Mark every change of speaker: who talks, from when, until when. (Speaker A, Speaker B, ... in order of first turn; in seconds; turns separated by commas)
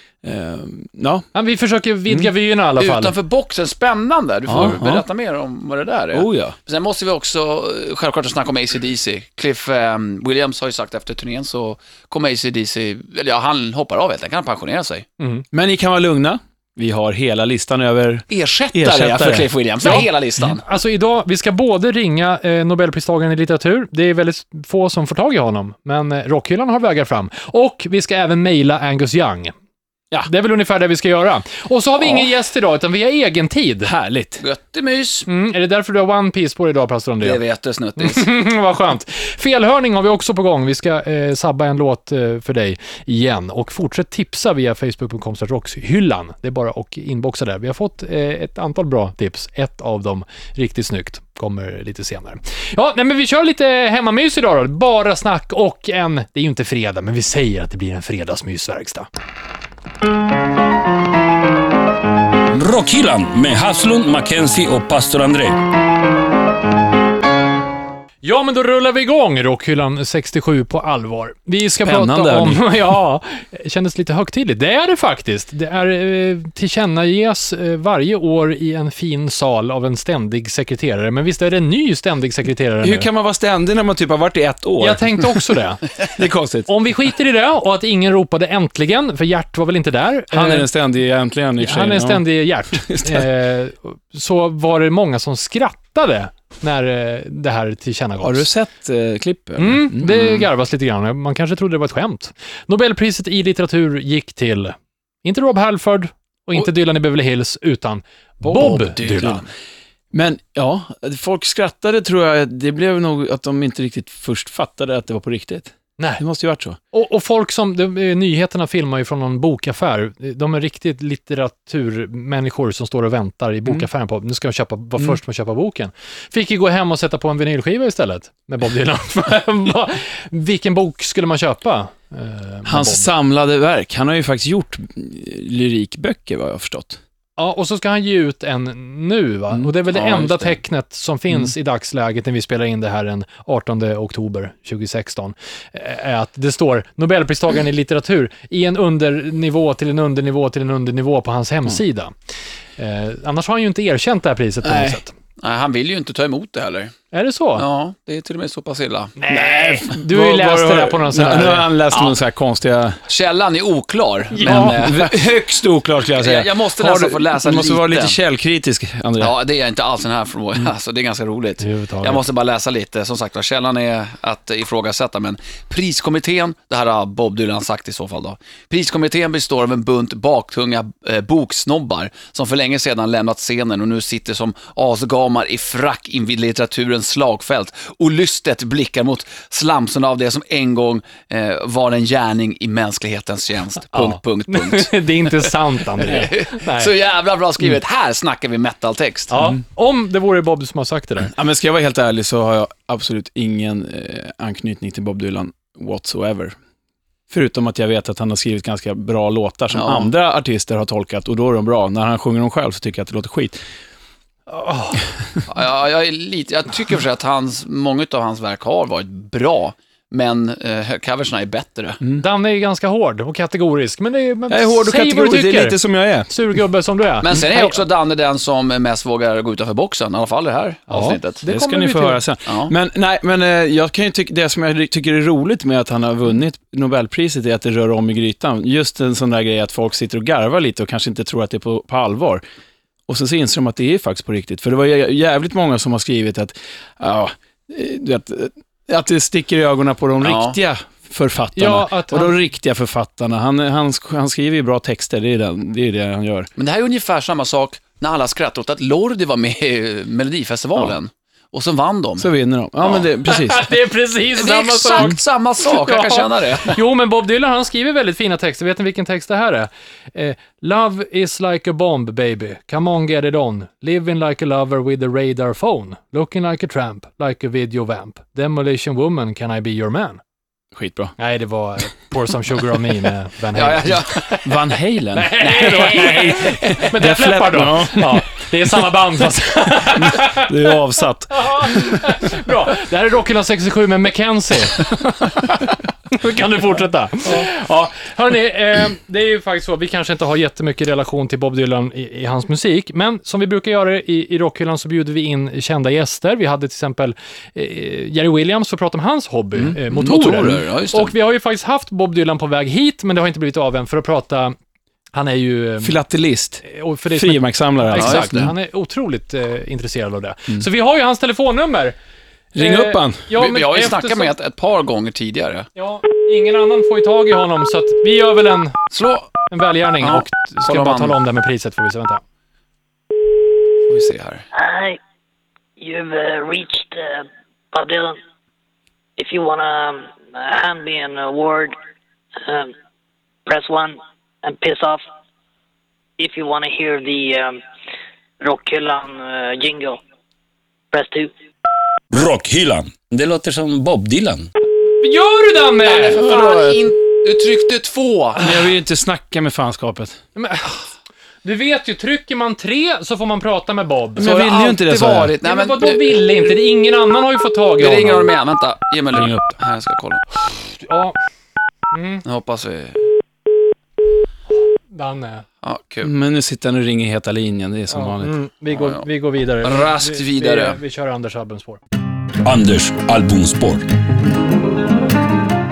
Speaker A: 0.2-1.3, Speaker B: 1.3-3.1, Speaker C: 2.8-15.1, Speaker A: 4.5-5.0, Speaker A: 6.1-6.5, Speaker B: 15.2-15.4, Speaker A: 15.5-20.0, Speaker C: 18.3-20.6, Speaker B: 19.8-29.5, Speaker B: 30.2-33.9, Speaker A: 33.8-34.4, Speaker C: 34.4-35.3, Speaker B: 35.3-37.4, Speaker C: 37.2-38.3, Speaker B: 38.0-59.1, Speaker D: 62.5-65.6, Speaker B: 68.2-83.1, Speaker A: 71.8-72.9, Speaker A: 82.8-85.5, Speaker B: 84.8-85.8, Speaker A: 86.1-86.7, Speaker B: 86.7-90.7, Speaker A: 90.3-93.3, Speaker B: 91.6-98.5, Speaker A: 98.2-100.4, Speaker B: 99.6-109.4, Speaker A: 108.5-109.4, Speaker C: 108.8-109.4, Speaker A: 110.1-116.8, Speaker B: 116.9-133.1, Speaker A: 132.7-137.0, Speaker B: 137.4-152.1, Speaker C: 139.9-140.5, Speaker B: 152.8-155.1, Speaker A: 154.6-155.0, Speaker C: 155.4-156.9, Speaker B: 157.1-157.7, Speaker C: 157.6-159.2, Speaker B: 159.2-161.7, Speaker A: 159.3-163.0, Speaker C: 161.9-162.2, Speaker C: 163.1-165.3, Speaker B: 164.3-164.8, Speaker A: 164.4-169.3, Speaker C: 166.1-168.2, Speaker C: 169.2-199.3, Speaker B: 171.6-172.2, Speaker B: 193.9-196.9, Speaker B: 199.3-201.3, Speaker A: 201.3-206.6, Speaker A: 207.3-213.6, Speaker C: 209.7-210.1, Speaker B: 214.5-215.0, Speaker C: 215.5-222.0, Speaker B: 222.2-227.8, Speaker A: 224.5-226.3, Speaker C: 227.2-231.4, Speaker B: 230.9-232.2, Speaker A: 231.4-242.4, Speaker C: 232.4-232.7, Speaker A: 243.1-256.5, Speaker C: 250.2-250.6, Speaker B: 251.6-252.3, Speaker C: 256.6-262.3, Speaker A: 262.2-263.7, Speaker B: 263.2-280.2, Speaker C: 264.4-266.8, Speaker A: 280.7-281.1, Speaker B: 281.2-284.5, Speaker C: 283.5-284.3, Speaker A: 284.4-288.4, Speaker B: 285.1-290.7, Speaker C: 285.4-286.8, Speaker A: 289.9-292.1, Speaker B: 291.3-295.5, Speaker B: 296.1-314.6, Speaker C: 309.5-311.1, Speaker B: 315.1-316.0, Speaker A: 315.8-316.6, Speaker B: 316.6-321.9, Speaker A: 317.1-318.5, Speaker C: 317.9-318.5, Speaker A: 322.5-323.2, Speaker B: 322.6-324.3, Speaker C: 323.3-325.7, Speaker B: 325.8-328.8, Speaker C: 328.9-329.3, Speaker B: 329.5-332.2, Speaker C: 330.0-331.1, Speaker C: 333.9-334.4, Speaker E: 334.5-335.0, Speaker E: 335.8-338.2, Speaker E: 339.2-341.8, Speaker E: 342.4-342.7, Speaker E: 343.4-345.0, Speaker E: 346.2-347.6, Speaker E: 348.4-350.0, Speaker E: 350.9-351.3, Speaker D: 352.1-354.5, Speaker B: 355.0-356.2, Speaker C: 355.8-358.6, Speaker A: 356.2-356.8, Speaker A: 358.4-360.2, Speaker B: 360.4-360.8, Speaker B: 361.4-364.2, Speaker A: 364.2-365.3, Speaker C: 364.2-366.3, Speaker B: 365.4-368.3, Speaker C: 367.8-370.2, Speaker A: 369.1-369.6, Speaker B: 370.8-371.2, Speaker B: 371.9-372.2, Speaker C: 372.2-373.1, Speaker B: 374.9-375.4, Speaker C: 375.6-376.1, Speaker A: 376.0-378.3, Speaker B: 377.9-381.8, Speaker C: 378.7-379.1, Speaker C: 379.6-380.8, Speaker D: 382.4-383.9